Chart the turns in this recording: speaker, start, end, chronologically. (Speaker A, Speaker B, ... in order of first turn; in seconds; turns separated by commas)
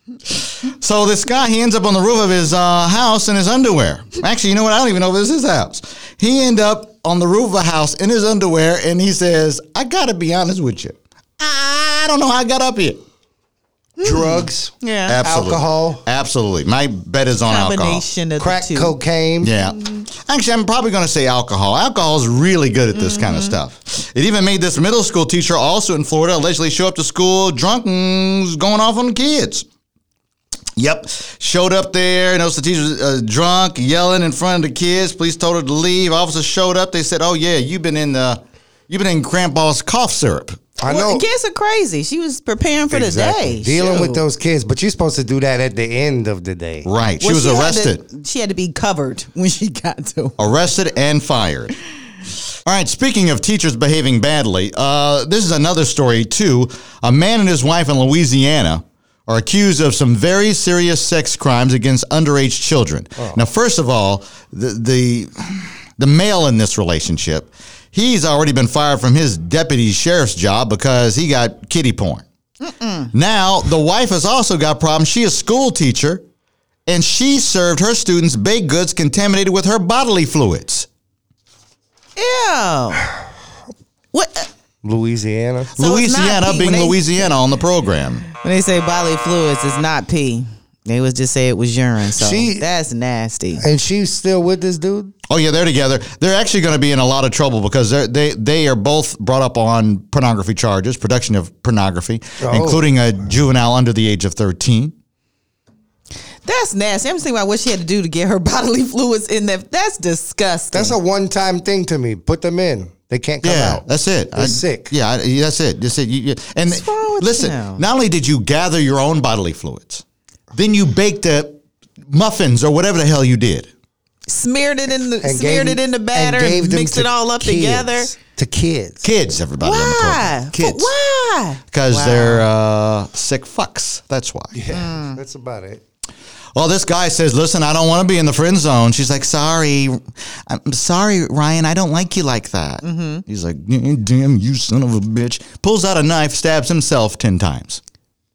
Speaker A: 0.2-13.0, Speaker B: 14.0-15.2, Speaker C: 14.0-16.0, Speaker A: 15.1-18.0, Speaker B: 17.5-19.0, Speaker C: 18.4-19.5, Speaker A: 19.4-29.7, Speaker B: 22.9-23.6, Speaker A: 30.8-40.6, Speaker C: 40.8-41.2, Speaker B: 40.9-44.2, Speaker C: 42.9-46.9, Speaker A: 46.8-48.0, Speaker B: 47.2-50.4, Speaker A: 50.4-51.8, Speaker A: 52.6-72.2, Speaker C: 63.2-63.4, Speaker B: 72.6-73.1, Speaker A: 73.1-76.2, Speaker A: 76.9-80.9, Speaker B: 82.2-83.1, Speaker B: 84.1-84.5, Speaker C: 84.8-85.8, Speaker A: 85.8-88.3, Speaker B: 85.8-87.3, Speaker B: 88.3-93.7, Speaker C: 92.1-92.7, Speaker C: 93.6-95.1, Speaker A: 95.3-104.9, Speaker C: 102.4-102.8, Speaker B: 106.5-111.0, Speaker C: 110.7-114.9, Speaker A: 113.4-123.7, Speaker B: 116.7-117.8, Speaker B: 124.3-128.1, Speaker C: 125.2-129.1, Speaker A: 129.0-130.9, Speaker B: 129.6-132.5, Speaker A: 131.7-134.6, Speaker C: 134.6-135.8, Speaker B: 134.7-135.2, Speaker A: 136.6-147.8, Speaker B: 142.8-143.2